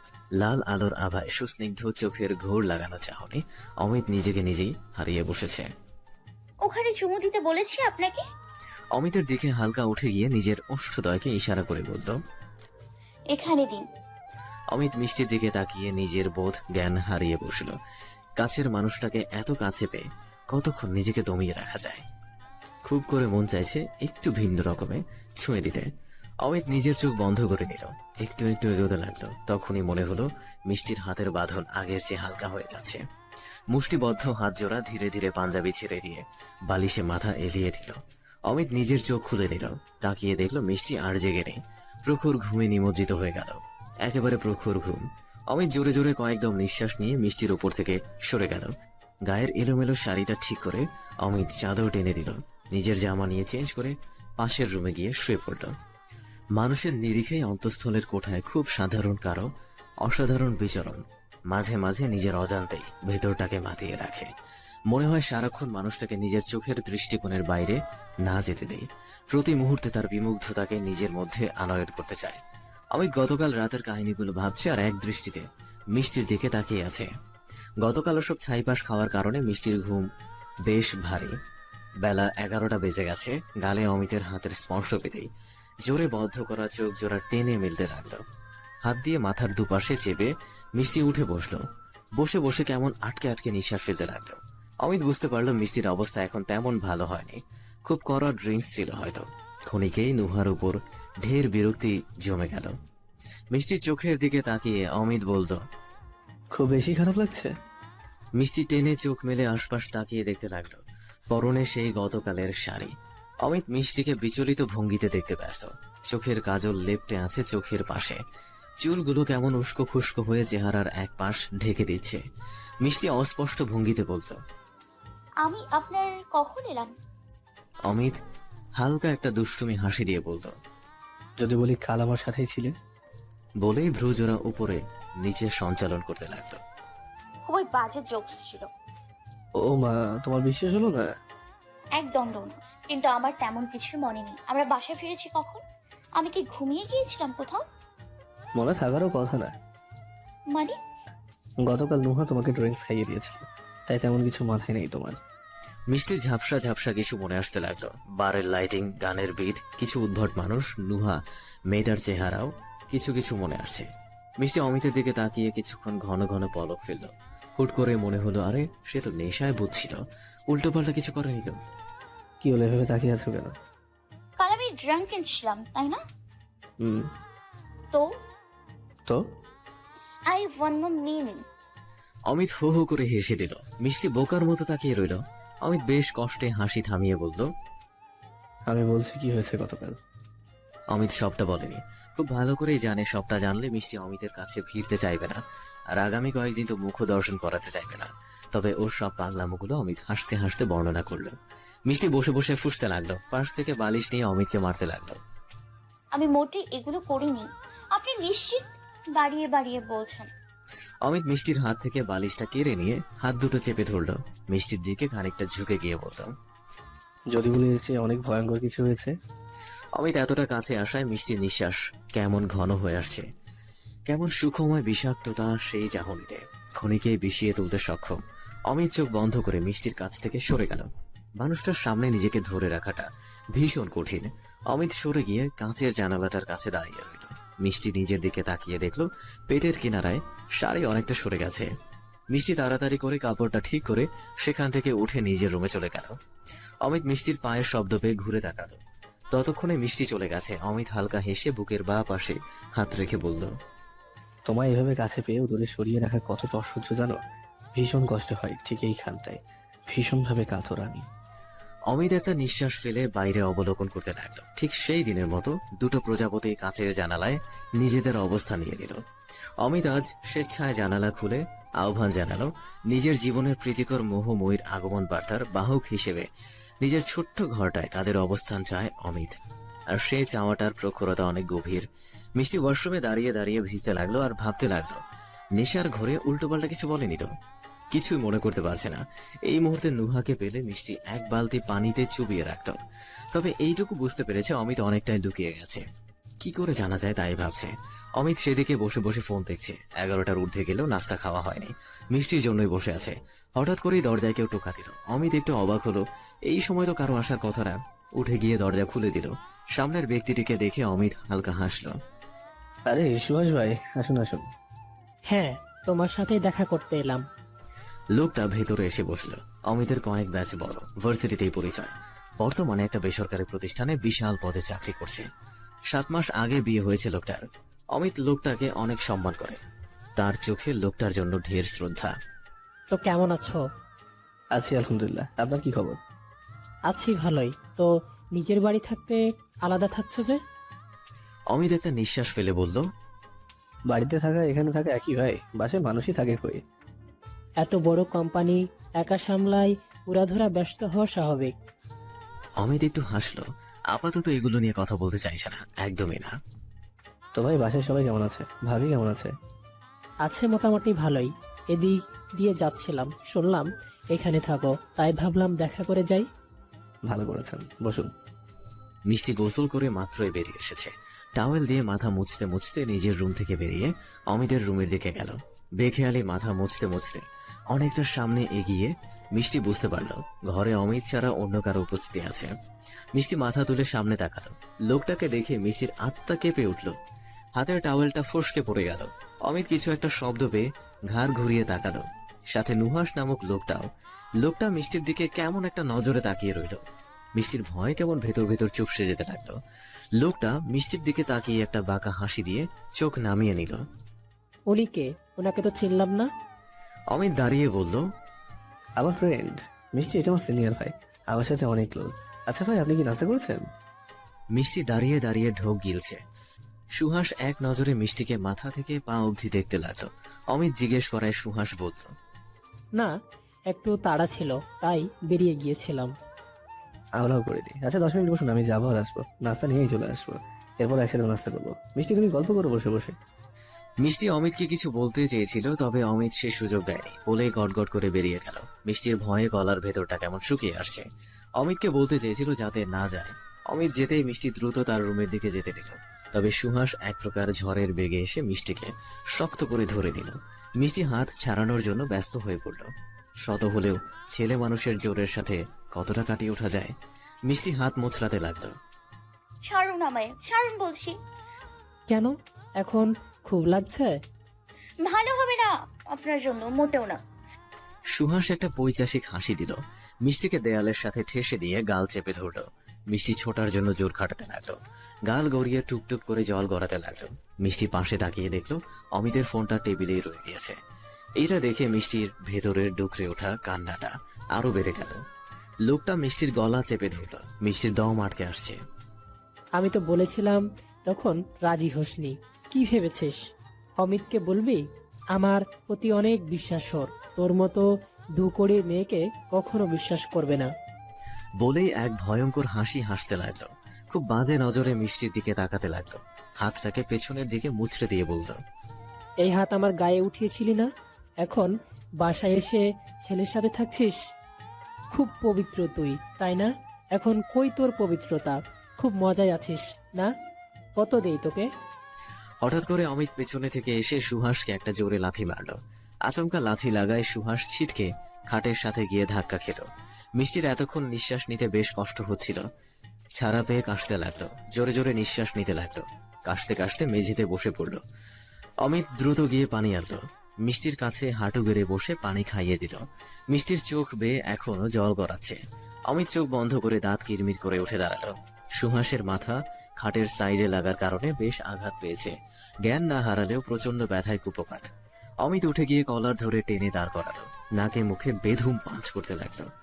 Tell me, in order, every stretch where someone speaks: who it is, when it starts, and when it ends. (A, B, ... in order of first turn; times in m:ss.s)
0:00.4-0:05.7 A
0:06.6-0:08.2 B
0:09.0-0:12.2 A
0:13.3-0:13.8 B
0:14.7-0:17.8 A
0:18.4-0:22.0 A
0:22.8-0:25.9 A
0:26.4-0:33.0 A
0:33.7-0:48.7 A
0:49.3-0:55.7 A
0:56.6-0:59.5 A
1:00.0-1:04.3 A
1:04.9-1:12.4 A
1:12.9-1:17.1 A
1:17.8-1:20.1 A
1:20.7-1:21.3 A
1:22.0-1:25.3 A
1:25.8-1:28.2 A
1:28.8-1:31.6 A
1:32.2-1:42.7 A
1:43.5-1:45.6 A
1:46.5-1:47.5 C
1:48.4-1:50.8 A
1:51.3-1:58.2 A
1:58.8-2:02.2 A
2:02.8-2:04.4 A
2:05.4-2:06.9 B
2:07.9-2:08.2 A
2:08.8-2:10.5 A
2:11.4-2:12.7 C
2:13.6-2:16.6 A
2:17.5-2:18.7 B
2:19.6-2:21.1 C
2:22.0-2:25.6 B
2:26.2-2:27.6 B
2:28.6-2:29.5 C
2:31.6-2:35.2 C
2:35.9-2:41.2 A
2:41.7-2:43.8 A
2:44.4-2:50.0 A
2:50.5-2:51.6 A
2:52.4-2:53.5 C
2:54.4-2:56.0 B
2:56.8-2:57.1 C
3:00.3-3:01.4 B
3:02.3-3:07.5 A
3:08.7-3:10.0 C
3:10.9-3:15.4 A
3:15.9-3:21.3 A
3:21.9-3:25.2 A
3:26.2-3:28.6 B
3:29.2-3:30.3 B
3:31.0-3:36.3 A
3:37.3-3:39.1 C
3:40.0-3:43.3 A
3:44.1-3:48.2 A
3:48.7-3:50.9 A
3:51.4-4:01.7 A
4:02.3-4:06.1 A
4:06.8-4:08.8 A
4:09.3-4:13.5 A
4:14.5-4:17.2 C
4:17.8-4:21.0 C
4:21.9-4:29.0 A
4:29.6-4:36.3 A
4:36.8-4:39.4 A
4:39.9-4:41.8 A
4:42.4-4:45.0 A
4:45.6-4:47.3 A
4:47.9-4:52.8 A
4:53.3-4:55.8 A
4:56.4-5:12.0 A
5:12.9-5:14.4 C
5:15.3-5:17.2 D
5:18.2-5:25.2 A
5:25.9-5:29.6 A
5:30.2-5:32.1 A
5:32.9-5:33.6 D
5:34.6-5:36.0 C
5:36.9-5:40.4 D
5:41.5-5:42.8 A
5:43.9-5:46.6 C
5:47.6-5:51.5 D
5:52.6-5:56.3 A
5:57.4-5:59.3 C
6:00.2-6:06.2 D
6:07.1-6:08.1 C
6:09.1-6:22.5 A
6:23.2-6:26.9 A
6:27.6-6:33.8 A
6:34.4-6:36.8 A
6:37.4-6:39.6 A
6:40.2-6:43.8 A
6:44.7-6:46.3 D
6:47.1-6:48.0 A
6:49.0-6:53.6 C
6:54.6-6:56.2 A
6:57.0-7:02.1 A
7:03.7-7:06.1 D
7:07.2-7:13.2 C
7:14.0-7:21.0 A
7:21.6-7:32.9 A
7:33.4-7:37.0 A
7:37.5-7:38.7 A
7:39.7-7:41.2 B
7:42.1-7:44.2 D
7:45.0-7:47.2 B
7:48.1-7:54.8 A
7:55.3-8:00.8 A
8:01.4-8:05.2 A
8:05.9-8:08.8 A
8:09.8-8:13.4 D
8:14.0-8:14.8 D
8:15.3-8:17.8 D
8:18.4-8:20.7 D
8:21.6-8:28.6 A
8:29.4-8:30.9 D
8:31.4-8:34.2 D
8:35.1-8:40.3 D
8:41.0-8:41.7 D
8:42.6-8:49.8 A
8:50.4-8:52.6 A
8:53.4-8:58.0 A
8:58.8-9:12.3 A
9:12.8-9:14.9 A
9:15.4-9:19.7 A